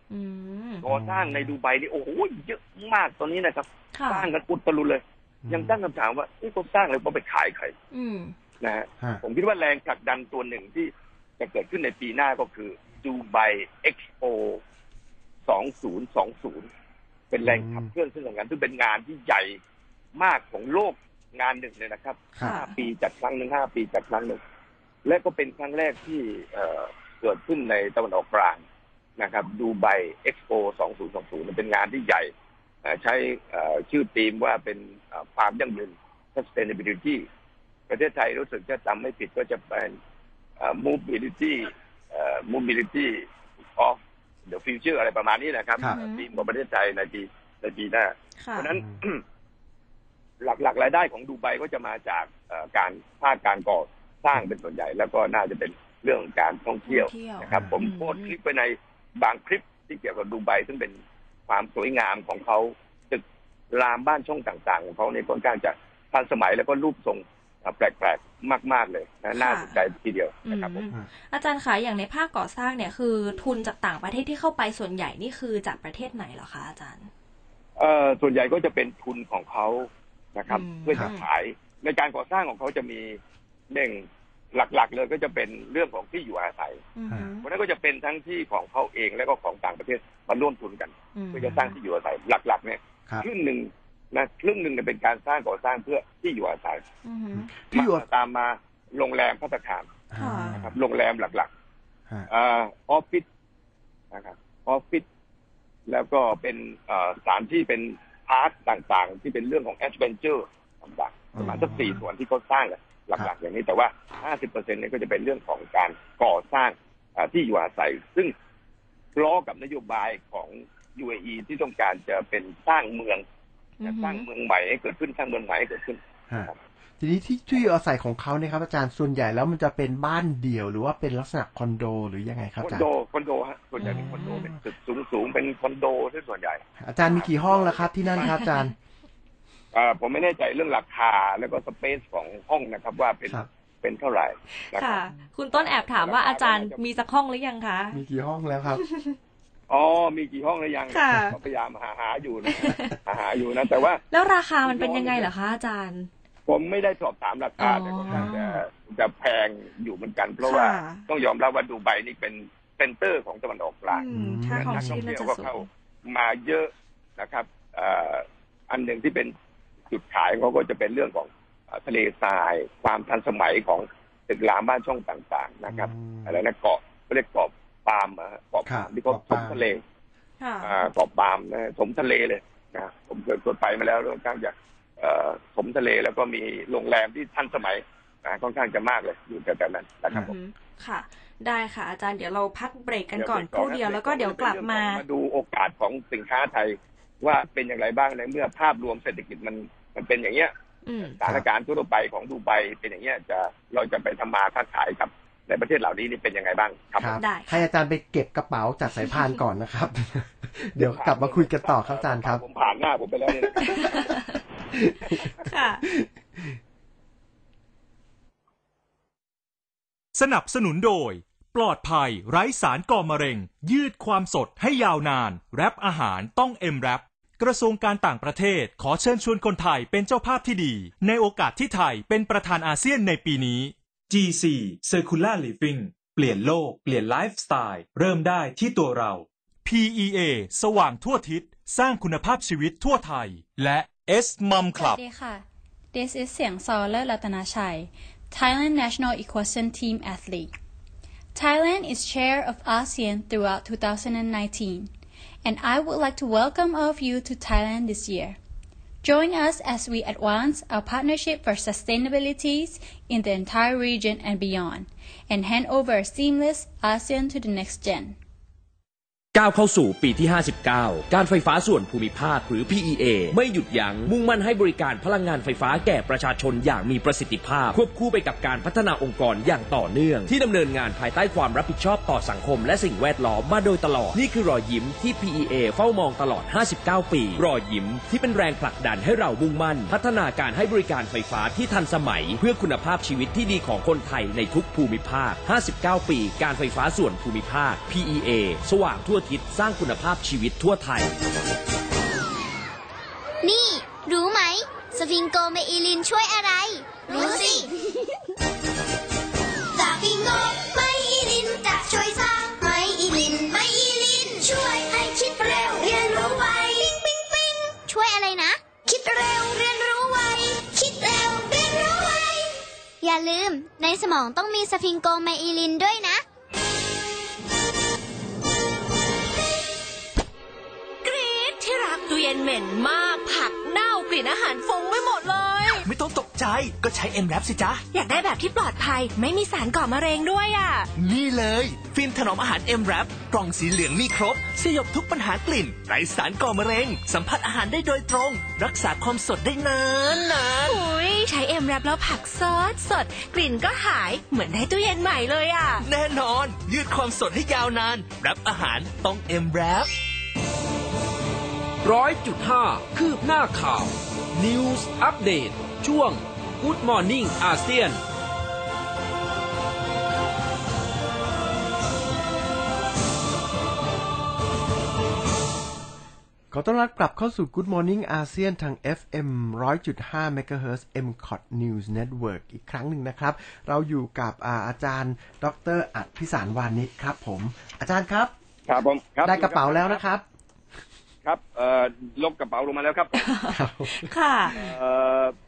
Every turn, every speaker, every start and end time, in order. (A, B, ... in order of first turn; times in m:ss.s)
0:00.1-0:00.8 A
0:00.8-0:07.7 B
0:00.8-0:01.5 C
0:03.9-0:04.3 A
0:05.4-0:05.8 C
0:07.9-0:08.3 A
0:08.6-0:14.6 B
0:15.5-0:16.7 B
0:17.3-0:19.6 B
0:17.4-0:17.9 C
0:20.2-0:24.4 B
0:22.4-0:22.8 A
0:25.0-0:28.6 B
0:29.2-0:32.3 B
0:32.8-0:37.2 B
0:37.9-0:40.0 B
0:40.6-0:43.2 B
0:43.8-0:49.2 B
0:45.8-0:46.5 A
0:48.4-0:48.7 A
0:50.4-1:01.0 B
0:56.8-0:58.3 A
1:01.5-1:10.8 B
1:09.3-1:09.8 A
1:10.4-1:17.1 A
1:17.8-1:23.2 B
1:20.5-1:21.2 A
1:23.7-1:26.8 B
1:27.0-1:27.5 A
1:27.4-1:36.8 B
1:31.1-1:31.7 A
1:37.0-1:37.5 A
1:37.3-1:38.0 C
1:37.7-1:39.9 B
1:40.1-1:40.8 C
1:40.2-1:40.6 A
1:40.6-1:41.5 B
1:42.3-1:43.2 B
1:44.1-1:45.0 B
1:45.9-1:58.3 B
1:51.3-1:52.0 C
1:59.2-2:03.2 B
2:03.8-2:04.2 A
2:03.8-2:06.5 B
2:06.3-2:12.9 C
2:12.6-2:18.3 B
2:13.8-2:14.5 A
2:13.8-2:14.6 C
2:16.8-2:18.7 C
2:18.2-2:18.5 A
2:19.7-2:26.8 B
2:24.6-2:28.0 A
2:27.9-2:28.8 C
2:28.8-2:29.1 A
2:29.7-2:34.0 B
2:30.9-2:31.3 A
2:32.5-2:33.0 A
2:34.1-2:36.1 A
2:34.6-2:35.3 B
2:36.5-2:49.3 B
2:37.6-2:38.6 A
2:40.4-2:41.0 A
2:43.9-2:45.7 A
2:44.1-2:45.0 C
2:49.9-2:59.8 B
2:55.7-2:56.4 C
2:58.6-2:59.6 C
3:00.4-3:00.8 A
3:00.6-3:10.3 B
3:10.1-3:15.0 A
3:13.2-3:20.5 B
3:20.8-3:21.2 A
3:21.1-3:27.2 B
3:27.0-3:32.4 C
3:27.1-3:27.6 A
3:30.8-3:33.9 B
3:33.6-3:34.1 C
3:33.6-3:34.4 A
3:34.7-3:35.3 C
3:35.4-3:35.8 A
3:35.8-3:36.6 C
3:40.1-4:05.0 D
4:04.7-4:10.5 E
4:11.3-4:14.9 E
4:15.4-4:18.4 E
4:19.0-4:28.2 E
4:29.3-5:01.1 F
5:03.4-5:07.7 G
5:09.7-5:26.2 G
5:31.0-5:35.9 H
5:35.8-5:37.8 I
5:37.9-5:40.9 H
5:41.0-5:50.8 I
5:50.5-5:55.8 H
5:55.8-5:59.9 I
6:01.8-6:05.8 I
6:16.5-6:28.3 C
6:28.7-6:30.0 B
6:29.2-6:30.2 C
6:31.2-6:33.3 B
6:33.1-6:34.6 A
6:33.5-6:34.1 C
6:34.5-6:35.3 B